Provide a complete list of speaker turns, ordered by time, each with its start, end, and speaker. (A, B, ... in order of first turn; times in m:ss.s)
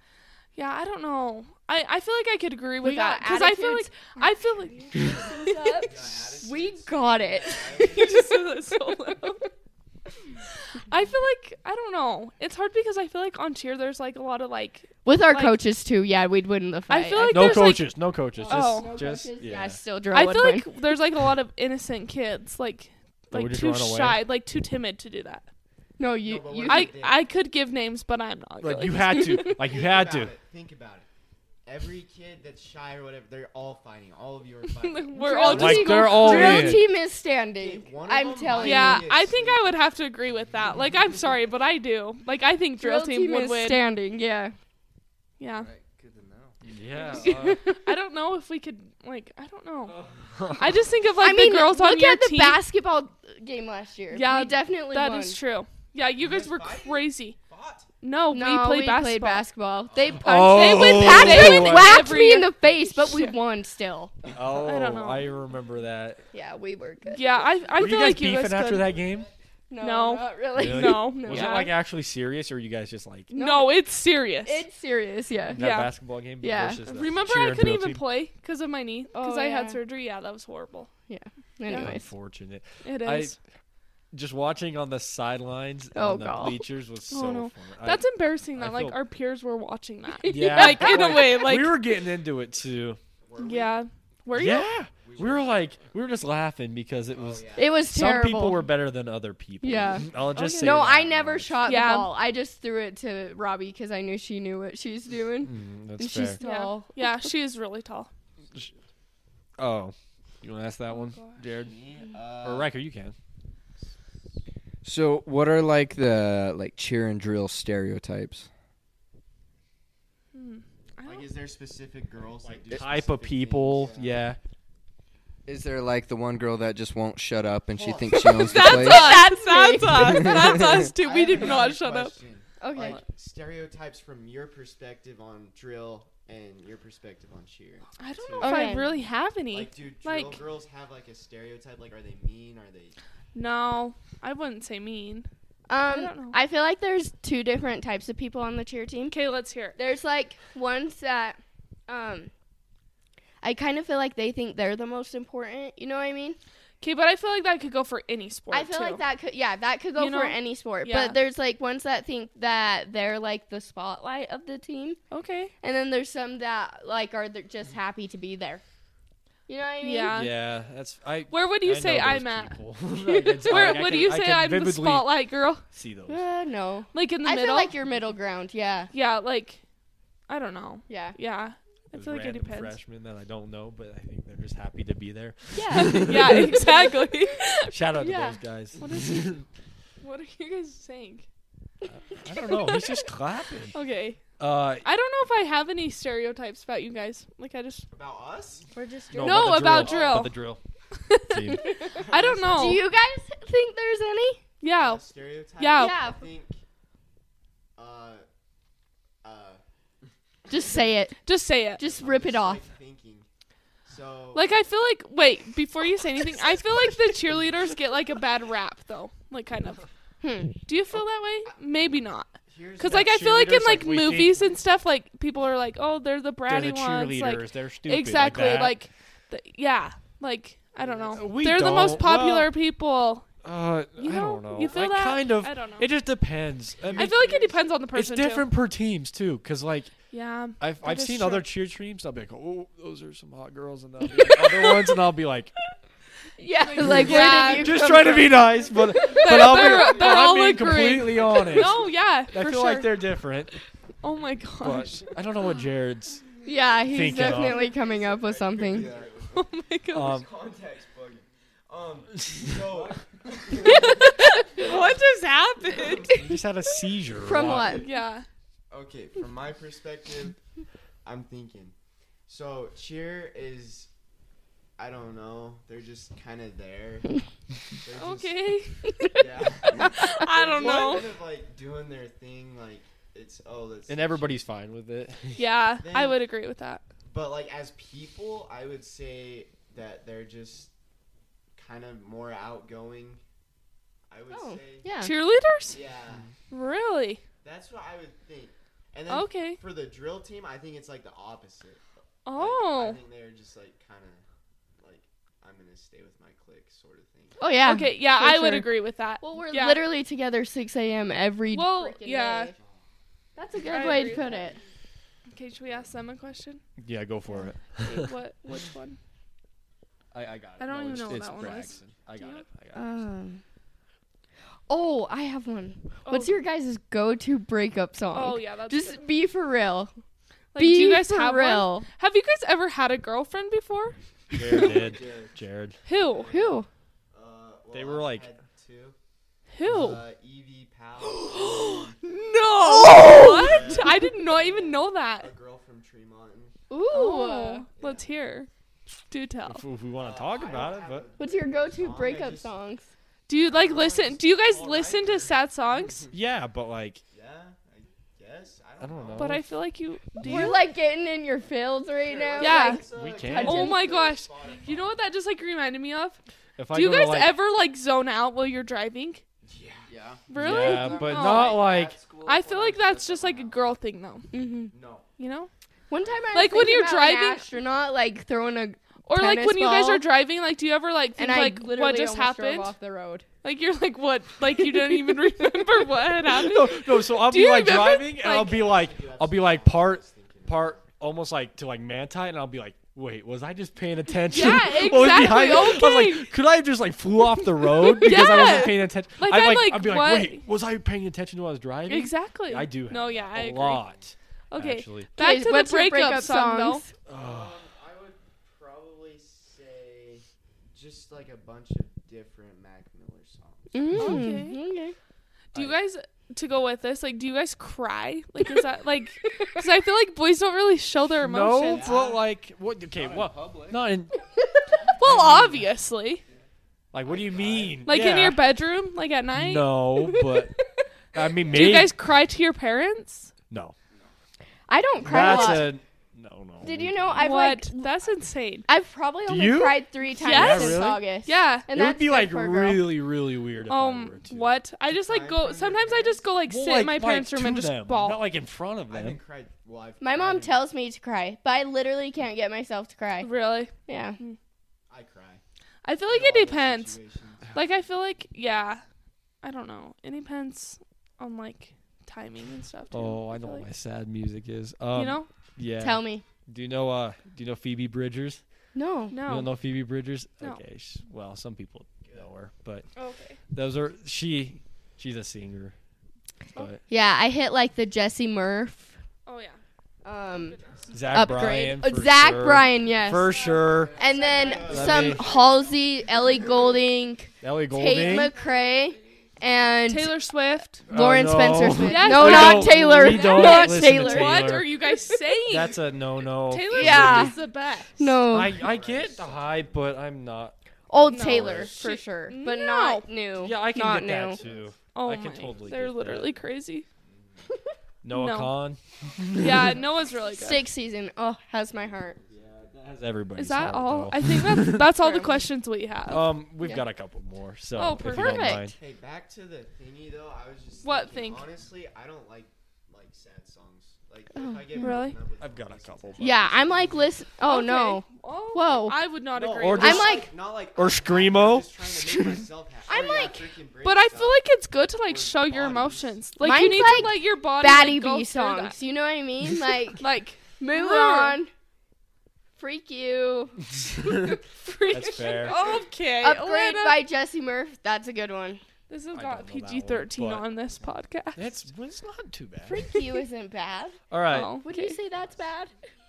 0:00.5-0:05.9 A
0:02.8-0:03.9 B
0:05.3-0:09.3 B
0:05.8-0:08.4 C
0:07.7-0:09.5 A
0:10.9-0:15.6 A
0:15.0-0:17.7 B
0:16.9-0:17.9 A
0:17.3-0:19.8 D
0:18.4-0:20.6 B
0:18.4-0:18.9 A
0:20.1-0:25.5 A
0:23.3-0:24.2 D
0:26.0-0:26.9 B
0:26.2-0:27.3 C
0:26.6-0:29.5 A
0:28.6-0:30.3 D
0:29.5-0:31.1 C
0:31.6-0:36.6 C
0:34.7-0:36.8 A
0:35.2-0:39.1 B
0:35.5-0:36.9 D
0:37.6-0:39.8 C
0:38.6-0:43.8 A
0:42.8-0:44.5 B
0:45.4-0:45.7 A
0:45.5-0:46.6 E
0:46.6-0:47.6 D
0:47.1-0:50.0 A
0:47.2-0:47.9 B
0:50.0-0:50.8 D
0:50.5-0:52.6 A
0:51.2-0:55.4 B
0:54.1-0:57.4 A
0:56.2-0:57.9 C
0:58.0-0:59.4 A
0:58.3-1:04.1 B
0:59.9-1:00.2 C
1:00.1-1:02.1 D
1:00.5-1:03.3 A
1:04.3-1:06.2 D
1:04.6-1:05.2 A
1:06.3-1:07.4 B
1:07.1-1:09.0 A
1:07.7-1:09.3 D
1:09.7-1:11.7 B
1:09.8-1:11.7 A
1:10.5-1:13.3 D
1:13.3-1:14.6 A
1:13.3-1:13.8 B
1:14.4-1:15.6 B
1:15.5-1:18.0 D
1:15.6-1:15.9 A
1:16.4-1:16.8 B
1:16.9-1:20.9 A
1:19.1-1:19.8 B
1:21.1-1:22.1 B
1:21.7-1:21.9 A
1:21.7-1:23.4 D
1:22.8-1:23.4 A
1:24.1-1:29.0 D
1:25.9-1:26.6 B
1:27.1-1:31.8 A
1:30.2-1:31.5 B
1:30.2-1:33.0 D
1:33.2-1:33.8 C
1:33.4-1:34.7 A
1:34.3-1:41.6 D
1:35.0-1:35.8 C
1:37.1-1:37.8 C
1:37.6-1:38.7 B
1:39.6-1:47.1 B
1:41.6-1:42.1 A
1:45.4-1:46.4 D
1:46.4-1:48.1 A
1:49.6-1:51.7 D
1:50.9-1:51.4 A
1:51.5-1:52.8 C
1:52.4-1:53.1 D
1:54.8-1:58.5 E
2:00.3-2:01.3 A
2:01.0-2:04.2 C
2:02.4-2:04.4 D
2:03.6-2:04.1 E
2:05.4-2:09.2 E
2:07.7-2:08.9 C
2:08.2-2:12.2 A
2:08.2-2:10.6 B
2:10.0-2:10.7 E
2:10.8-2:23.0 C
2:12.6-2:13.0 B
2:18.0-2:20.4 A
2:18.4-2:18.9 B
2:23.3-2:25.3 A
2:25.7-2:29.1 B
2:25.8-2:26.4 A
2:29.1-2:29.8 A
2:29.8-2:32.3 B
2:33.4-2:36.4 B
2:36.8-2:39.0 A
2:38.5-2:45.0 B
2:40.0-2:41.2 A
2:45.1-2:45.5 A
2:45.6-2:48.6 B
2:49.5-2:50.1 B
2:49.8-2:50.3 A
2:50.1-2:55.1 D
2:51.3-2:55.6 A
2:55.7-2:56.2 D
2:56.1-2:58.9 B
2:56.9-2:57.7 A
2:58.9-2:59.6 A
3:00.3-3:02.8 A
3:00.9-3:01.2 B
3:01.9-3:06.7 D
3:05.5-3:06.4 B
3:05.7-3:07.7 A
3:07.7-3:09.4 D
3:08.0-3:08.4 B
3:08.8-3:09.3 A
3:10.0-3:11.2 A
3:12.2-3:13.7 D
3:12.5-3:12.9 A
3:13.7-3:14.2 A
3:14.4-3:14.8 D
3:14.8-3:17.8 A
3:17.9-3:18.7 C
3:18.7-3:19.7 B
3:19.1-3:20.6 D
3:19.2-3:20.3 A
3:19.8-3:20.3 C
3:21.0-3:22.8 A
3:21.3-3:21.7 D
3:21.6-3:21.9 B
3:21.9-3:23.0 C
3:22.5-3:24.4 B
3:24.6-3:25.0 A
3:24.8-3:26.6 C
3:25.6-3:26.0 A
3:25.7-3:26.2 B
3:27.8-3:28.2 C
3:29.2-3:29.6 C
3:30.5-3:30.9 C
3:30.5-3:31.2 B
3:31.2-3:31.8 A
3:31.7-3:32.6 B
3:31.8-3:33.3 C
3:33.8-3:34.5 C
3:34.3-3:39.8 A
3:40.2-3:40.5 B
3:40.6-3:53.3 A
3:42.5-3:43.1 C
3:42.8-3:44.4 D
3:46.4-3:48.8 D
3:50.8-3:51.8 C
3:51.1-3:52.5 D
3:53.4-3:57.3 D
3:54.0-3:55.9 A
3:56.8-3:57.7 C
3:57.0-3:58.5 A
3:57.9-3:59.9 D
4:00.1-4:01.4 A
4:00.6-4:05.5 D
4:06.4-4:09.3 B
4:06.6-4:07.8 A
4:06.8-4:13.5 D
4:09.0-4:13.0 A
4:14.0-4:15.1 A
4:14.6-4:16.2 D
4:16.4-4:18.9 B
4:16.9-4:17.7 D
4:17.1-4:25.0 C
4:18.7-4:19.2 E
4:19.3-4:20.2 A
4:19.9-4:20.3 D
4:22.7-4:23.5 E
4:23.6-4:26.3 A
4:25.7-4:26.2 C
4:26.1-4:27.8 D
4:27.2-4:27.9 B
4:27.4-4:27.7 C
4:27.8-4:28.3 A
4:28.7-4:30.4 C
4:31.0-4:31.7 C
4:32.3-4:33.9 C
4:34.8-4:37.2 C
4:37.8-4:44.4 C
4:37.9-4:41.1 A
4:43.9-4:45.4 D
4:45.4-4:46.8 A
4:45.8-4:46.2 C
4:47.1-4:50.7 C
4:51.5-4:53.2 C
4:54.1-4:55.0 C
4:54.3-4:55.1 B
4:55.0-4:55.8 A
4:55.7-4:56.3 C
4:56.5-4:57.2 A
4:57.4-5:04.2 C
4:59.1-4:59.6 A
5:02.2-5:03.0 A
5:04.8-5:07.5 C
5:07.4-5:12.5 B
5:07.6-5:09.8 A
5:11.5-5:12.5 A
5:12.5-5:12.8 C
5:13.4-5:14.6 B
5:13.6-5:14.6 C
5:13.7-5:14.2 A
5:15.3-5:16.6 A
5:15.6-5:15.9 C
5:16.8-5:18.1 D
5:17.8-5:19.0 A
5:20.1-5:23.0 D
5:20.6-5:22.4 A
5:20.7-5:21.9 C
5:22.7-5:23.4 B
5:24.7-5:29.9 B
5:26.0-5:26.3 A
5:28.1-5:29.0 A
5:30.5-5:34.0 A
5:30.6-5:31.9 B
5:34.3-5:35.8 D
5:34.5-5:39.0 C
5:35.8-5:36.3 A
5:36.3-5:36.7 B
5:37.7-5:38.3 D
5:39.5-5:40.0 A
5:39.7-5:40.0 D
5:39.7-5:42.0 C
5:41.4-5:45.3 A
5:42.6-5:43.7 B
5:43.0-5:46.5 C
5:46.7-5:47.6 B
5:46.9-5:48.5 A
5:47.8-5:48.1 C
5:49.1-5:49.6 A
5:49.5-5:51.1 D
5:50.0-5:52.5 C
5:51.2-5:52.9 B
5:53.3-5:56.0 A
5:53.4-5:56.1 C
5:56.1-5:57.0 D
5:57.1-5:59.4 C
5:58.8-5:59.5 D
5:59.2-6:00.6 A
6:00.2-6:00.5 D
6:00.2-6:03.9 B
6:02.0-6:05.0 C
6:02.4-6:06.2 A
6:02.9-6:03.7 D
6:06.6-6:07.4 D
6:06.7-6:09.2 A
6:09.4-6:09.9 C
6:09.9-6:13.5 E
6:10.3-6:11.6 A
6:10.4-6:12.0 D
6:12.2-6:14.3 A
6:13.0-6:13.5 C
6:14.3-6:14.7 B
6:14.7-6:15.0 C
6:15.2-6:15.5 A
6:15.9-6:20.0 B
6:16.3-6:17.4 A
6:19.0-6:22.7 A
6:21.2-6:23.2 B
6:23.4-6:28.6 A
6:26.2-6:45.1 D
6:28.3-6:30.9 C
6:34.3-6:36.3 A
6:37.7-6:40.4 A
6:41.9-6:43.9 A
6:42.9-6:44.1 C
6:44.5-6:46.8 A
6:45.2-6:46.9 B
6:47.1-6:47.6 D
6:47.1-6:53.8 C
6:53.7-6:54.9 B
6:53.9-6:54.3 D
6:54.0-6:54.6 A
6:55.5-7:01.8 A
6:59.2-6:59.6 B
7:01.2-7:04.2 D
7:01.6-7:02.2 C
7:02.9-7:03.8 E
7:05.0-7:06.2 A
7:05.0-7:05.6 D
7:06.9-7:08.5 D
7:07.1-7:07.8 C
7:07.1-7:07.7 E
7:07.8-7:09.8 A
7:09.3-7:10.6 D
7:10.0-7:10.4 B
7:11.1-7:11.9 D
7:11.5-7:13.3 A
7:13.5-7:13.7 D
7:14.7-7:15.7 B
7:15.0-7:17.3 D
7:16.6-7:17.9 B
7:17.2-7:18.7 A
7:18.6-7:22.9 B
7:19.2-7:21.0 D
7:20.1-7:21.7 A
7:21.7-7:24.5 D
7:23.7-7:28.2 A
7:24.9-7:26.3 C
7:26.4-7:29.2 D
7:28.9-7:30.6 C
7:30.0-7:33.3 B
7:33.2-7:34.4 A
7:33.8-7:34.2 B
7:34.9-7:35.4 C
7:35.8-7:37.0 A
7:36.1-7:37.9 C
7:37.5-7:38.8 A
7:39.4-7:43.6 A
7:42.9-7:48.4 D
7:44.9-7:45.3 A
7:45.8-7:46.2 B
7:48.7-7:49.2 B
7:49.1-7:49.5 A
7:49.2-7:52.8 D
7:52.0-7:52.3 C
7:53.0-7:53.4 A
7:53.5-7:55.7 D
7:56.6-7:56.8 D
7:56.9-7:59.0 B
7:59.2-7:59.6 A
8:00.0-8:00.6 B
8:00.5-8:01.0 C
8:00.9-8:04.0 D
8:01.1-8:03.4 B
8:03.3-8:05.9 C
8:03.9-8:10.1 B
8:04.6-8:05.3 D
8:07.4-8:08.3 D
8:09.9-8:10.8 A
8:10.9-8:14.4 B
8:10.9-8:14.8 D
8:11.8-8:15.8 A
8:15.5-8:17.4 D
8:16.3-8:17.9 A
8:16.7-8:17.4 B
8:18.0-8:18.6 B
8:18.0-8:19.8 C
8:18.3-8:20.5 D
8:20.9-8:24.4 B
8:21.1-8:21.8 D
8:21.1-8:23.1 A
8:23.4-8:26.4 D
8:24.3-8:24.7 C
8:24.9-8:26.8 A
8:27.0-8:27.5 C
8:28.0-8:29.8 D
8:28.1-8:28.6 A
8:29.0-8:29.9 C
8:29.3-8:30.6 A
8:30.4-8:32.2 B
8:31.7-8:32.4 C
8:32.3-8:34.9 D
8:33.4-8:36.2 A
8:35.0-8:35.4 B
8:36.1-8:38.8 D
8:37.7-8:38.6 A
8:38.1-8:38.6 B
8:38.7-8:47.0 C
8:40.8-8:41.4 A
8:44.3-8:45.0 B
8:44.8-8:45.2 A
8:45.4-8:46.9 D
8:46.2-8:49.0 B
8:47.4-8:50.3 A
8:49.3-8:57.1 C
8:49.5-8:50.2 D
8:49.8-8:50.3 B
8:50.7-8:52.4 D
8:52.9-8:53.5 B
8:53.8-8:58.8 A
8:56.4-9:00.0 B
9:00.0-9:01.4 A
9:00.6-9:01.5 B
9:02.6-9:08.6 B
9:04.0-9:05.6 D
9:04.8-9:07.0 A
9:08.9-9:11.5 A
9:09.1-9:10.5 D
9:11.4-9:12.8 D
9:12.6-9:14.0 B
9:14.1-9:14.6 D
9:14.3-9:15.0 A
9:14.6-9:15.7 B
9:15.1-9:15.4 C